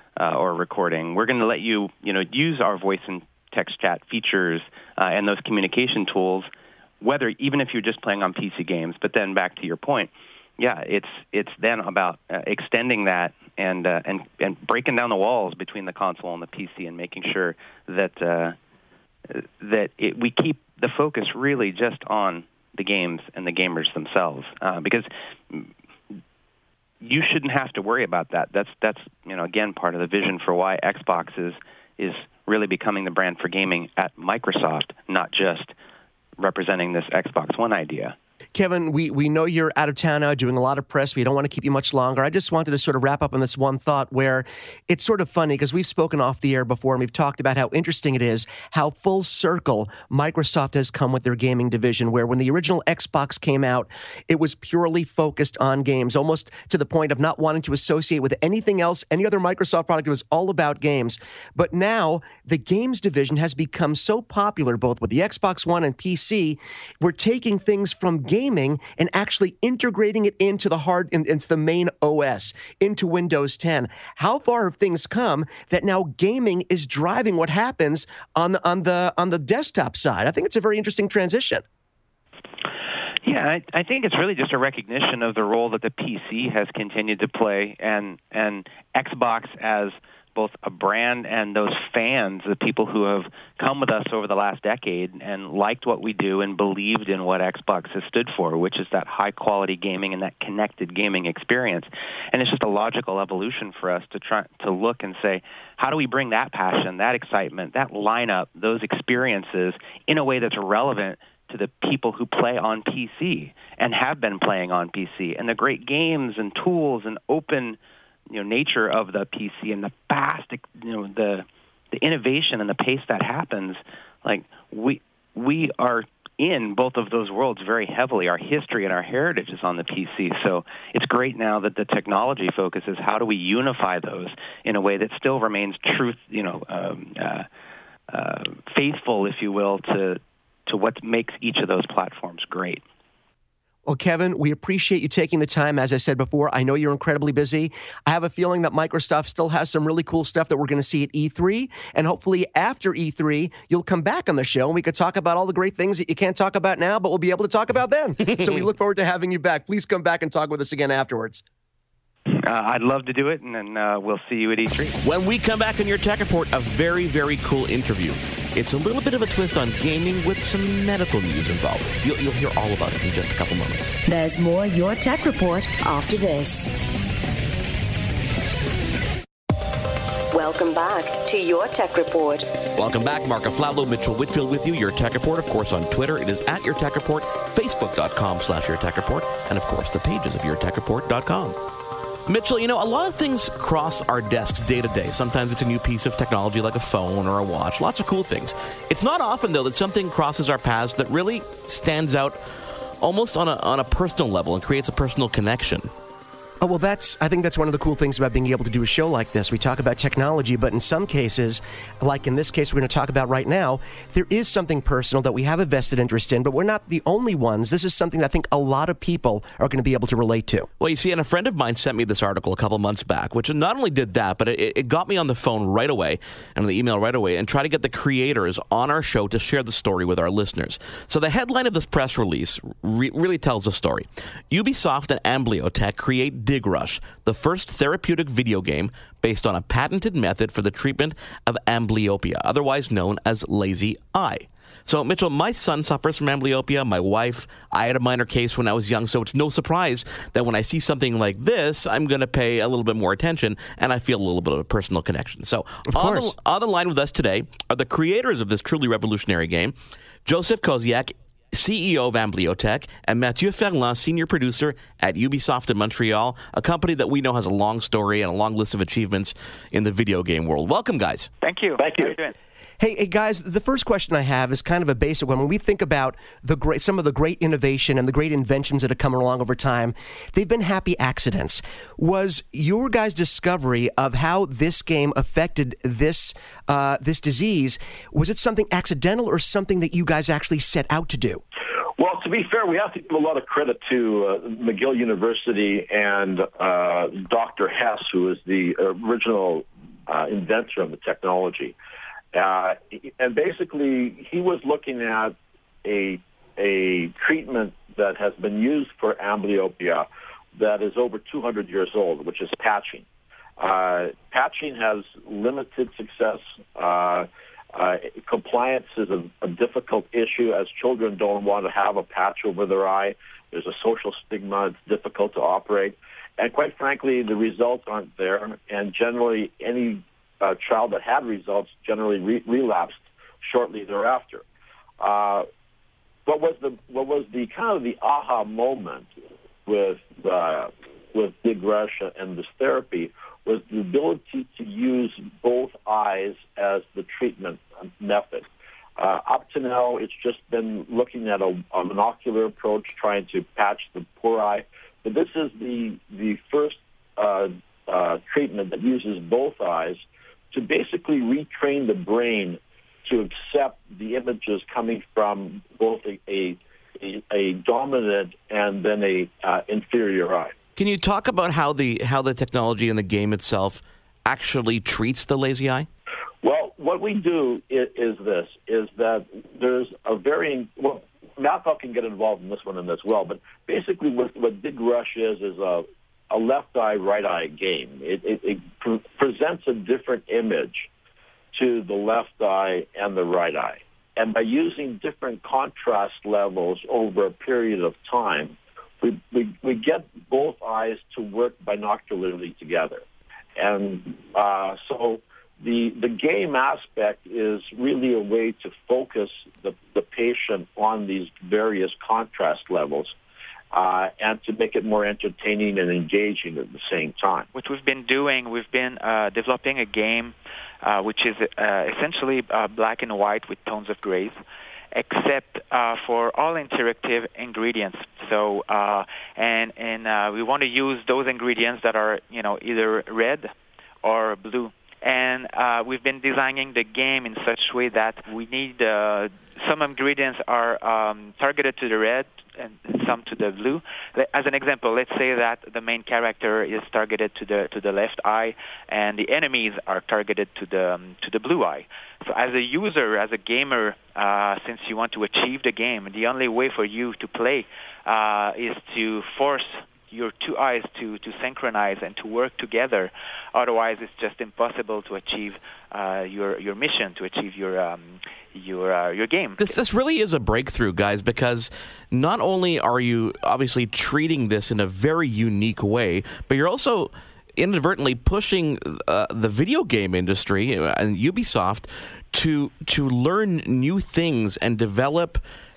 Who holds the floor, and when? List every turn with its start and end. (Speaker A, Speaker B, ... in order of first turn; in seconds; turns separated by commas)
Speaker A: 0.2-6.5, Speaker A: 7.0-18.6, Speaker A: 19.3-25.7, Speaker A: 27.0-35.7, Speaker A: 36.4-38.1, Speaker B: 38.5-81.6, Speaker A: 83.2-117.8, Speaker A: 118.3-137.5, Speaker A: 138.1-142.8, Speaker B: 143.8-161.4, Speaker A: 162.4-165.0, Speaker C: 165.0-173.9, Speaker D: 174.1-176.7, Speaker D: 180.3-182.5, Speaker C: 182.8-191.6, Speaker C: 192.3-202.4, Speaker C: 203.0-205.9, Speaker B: 206.6-220.7, Speaker C: 220.8-271.3, Speaker B: 255.9-256.3, Speaker E: 271.4-272.3, Speaker F: 271.8-272.1, Speaker B: 272.8-291.4, Speaker F: 292.0-301.8, Speaker F: 302.3-313.1, Speaker F: 313.6-334.4, Speaker F: 335.0-335.5, Speaker F: 336.3-339.1, Speaker F: 339.7-348.5, Speaker F: 349.0-370.5, Speaker C: 370.8-375.9, Speaker F: 376.4-390.9, Speaker F: 391.5-403.0, Speaker F: 403.6-413.1, Speaker F: 413.7-417.5, Speaker E: 417.5-424.4, Speaker E: 424.9-433.5, Speaker E: 434.0-469.8, Speaker C: 469.6-485.4